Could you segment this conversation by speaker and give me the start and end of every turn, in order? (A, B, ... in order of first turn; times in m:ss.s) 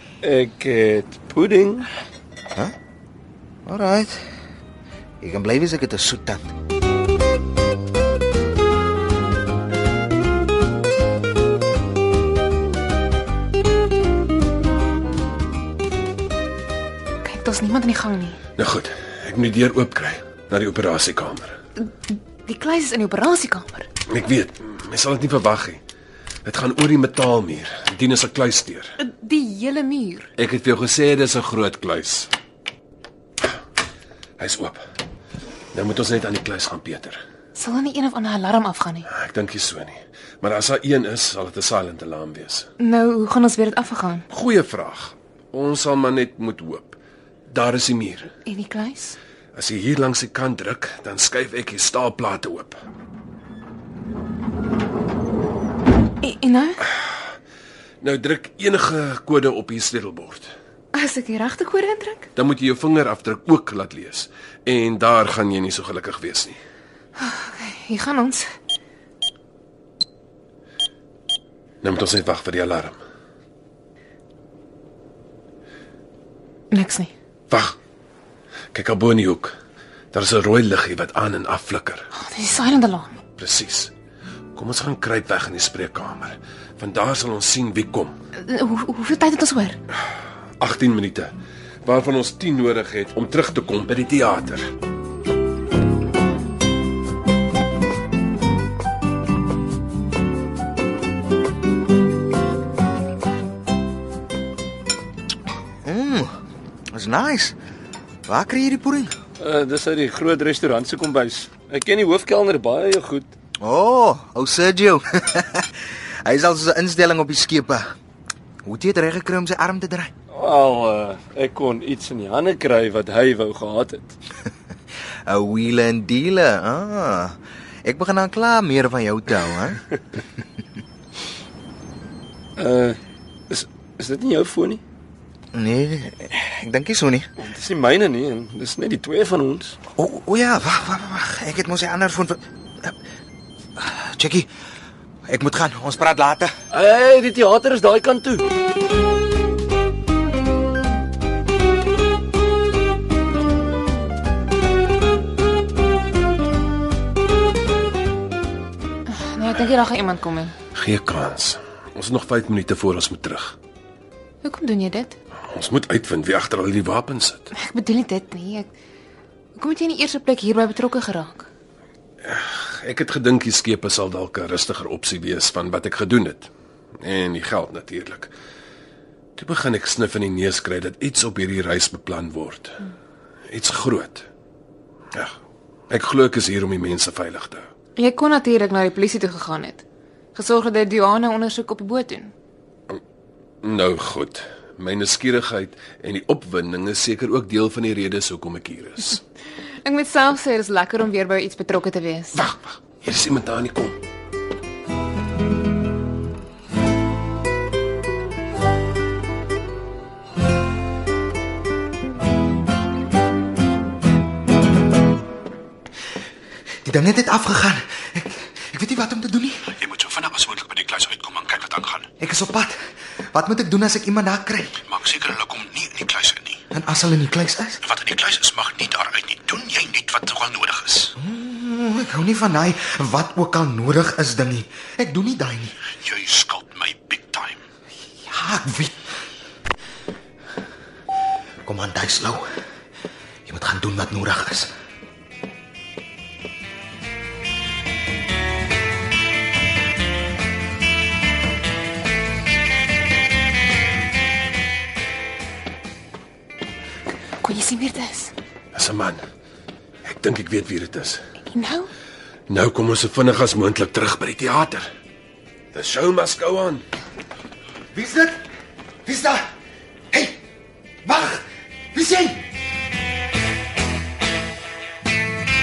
0:00.2-0:01.9 A
0:03.7-0:04.2 B
0:05.2-0:06.5 B
0:17.2-0:18.4 C
0:18.6-0:21.6 D
0:21.8-0:23.9 C
0:24.1-0:25.8 D
0:26.4-0:28.9 D
0:29.0-0:30.3 C
0:30.4-0:32.3 D
0:34.4-0:34.8 D
0:35.7-0:37.2 D
0:37.6-0:39.1 C
0:39.1-0:42.7 D
0:42.8-0:44.2 C
0:44.3-0:47.0 D
0:47.5-0:48.3 D
0:48.5-0:49.2 C
0:49.5-0:52.8 D
0:56.2-0:56.9 C
0:58.0-1:00.5 D
1:00.9-1:02.3 C
1:02.4-1:06.6 D
1:07.2-1:08.5 C
1:11.8-1:13.0 D
1:16.7-1:17.1 C
1:17.5-1:17.8 D
1:18.7-1:19.5 D
1:20.1-1:22.1 D
1:22.1-1:23.2 C
1:23.4-1:23.9 D
1:24.5-1:28.1 D
1:28.4-1:29.8 C
1:30.6-1:31.3 D
1:31.8-1:34.7 D
1:45.8-1:46.3 B
1:46.9-1:47.6 B
1:48.3-1:49.1 B
1:49.4-1:53.3 A
1:53.6-1:55.7 B
1:56.2-1:57.9 B
1:58.7-2:00.1 B
2:00.3-2:04.2 A
2:05.3-2:09.8 B
2:12.6-2:13.0 A
2:13.5-2:14.8 A
2:15.5-2:17.3 B
2:17.4-2:19.8 A
2:20.0-2:22.9 B
2:23.8-2:24.5 B
2:25.3-2:26.5 B
2:26.7-2:28.5 A
2:39.1-2:40.6 C
2:40.7-2:43.6 D
2:44.4-2:45.2 C
2:45.5-2:47.5 D
2:47.5-2:48.7 C
2:49.6-2:51.5 C
2:52.2-2:56.5 D
2:57.0-2:58.3 D
2:59.4-3:02.8 D
3:03.5-3:04.3 D
3:05.9-3:07.7 D
3:08.0-3:09.8 C
3:10.4-3:12.3 C
3:13.6-3:19.2 D
3:19.8-3:22.4 C
3:22.4-3:24.0 D
3:36.8-3:39.7 B
3:39.8-3:42.1 E
3:42.2-3:42.8 B
3:43.3-3:44.8 B
3:44.9-3:46.6 E
3:46.7-3:47.8 B
3:47.9-3:51.1 E
3:51.2-3:55.8 B
3:56.1-3:57.6 E
3:58.3-3:59.1 B
4:01.6-4:02.5 B
4:03.5-4:04.7 B
4:17.4-4:18.3 C
4:18.7-4:19.2 D
4:20.0-4:21.2 D
4:21.4-4:21.9 C
4:22.5-4:24.9 D
4:25.7-4:26.8 D
4:27.9-4:28.4 B
4:29.0-4:29.4 B
4:30.1-4:30.4 B
4:31.0-4:32.4 B